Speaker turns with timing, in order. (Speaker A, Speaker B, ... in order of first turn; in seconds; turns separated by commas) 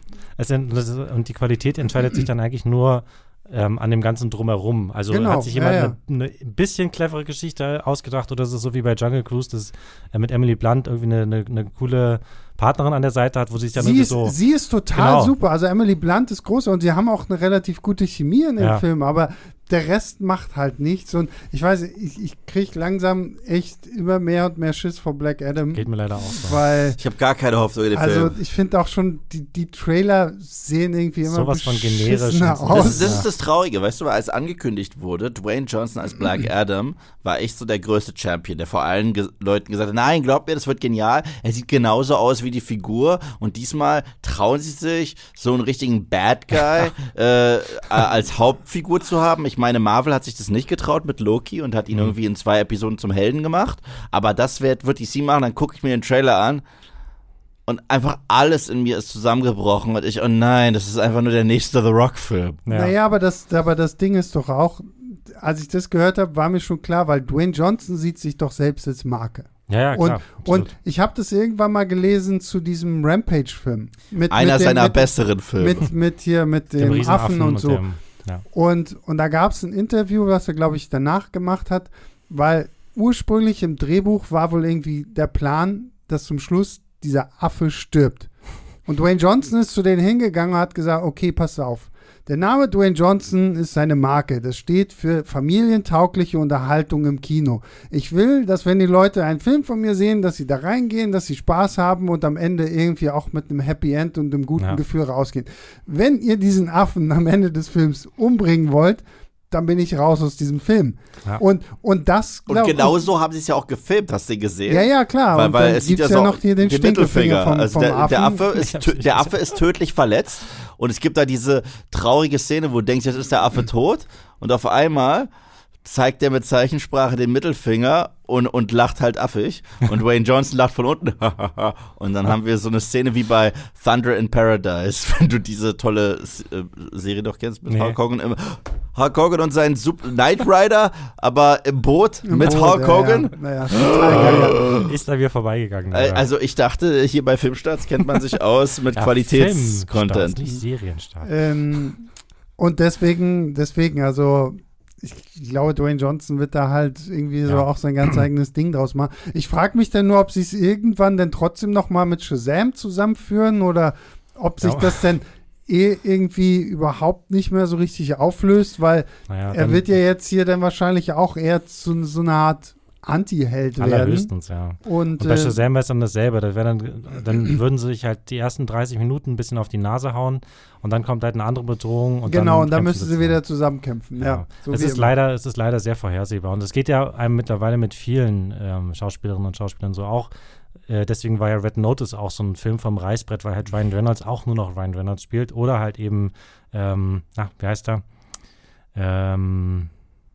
Speaker A: 0.4-14.3, Speaker B: 5.1-5.9, Speaker B: 13.8-27.0, Speaker A: 14.9-15.3, Speaker A: 25.7-26.6, Speaker C: 27.0-28.4, Speaker B: 27.9-33.2, Speaker A: 31.2-33.2, Speaker C: 32.7-56.6, Speaker C: 57.7-62.6, Speaker A: 62.6-62.9, Speaker B: 62.7-77.8, Speaker A: 69.7-70.7, Speaker C: 74.3-75.9, Speaker A: 76.8-78.4, Speaker B: 78.5-88.3, Speaker B: 88.8-113.0, Speaker C: 112.5-125.3, Speaker B: 114.7-118.5, Speaker A: 118.5-119.4, Speaker C: 125.8-144.9, Speaker A: 137.7-138.0, Speaker B: 142.2-144.8, Speaker A: 144.1-146.2, Speaker C: 145.9-150.4, Speaker A: 148.9-151.3, Speaker B: 151.2-152.1, Speaker B: 152.6-174.3, Speaker A: 157.5-158.2, Speaker A: 164.6-165.1, Speaker A: 169.3-169.8, Speaker A: 173.8-183.4, Speaker B: 174.8-175.6, Speaker B: 182.2-185.1, Speaker A: 184.2-190.3, Speaker A: 190.9-198.0, Speaker A: 198.9-199.9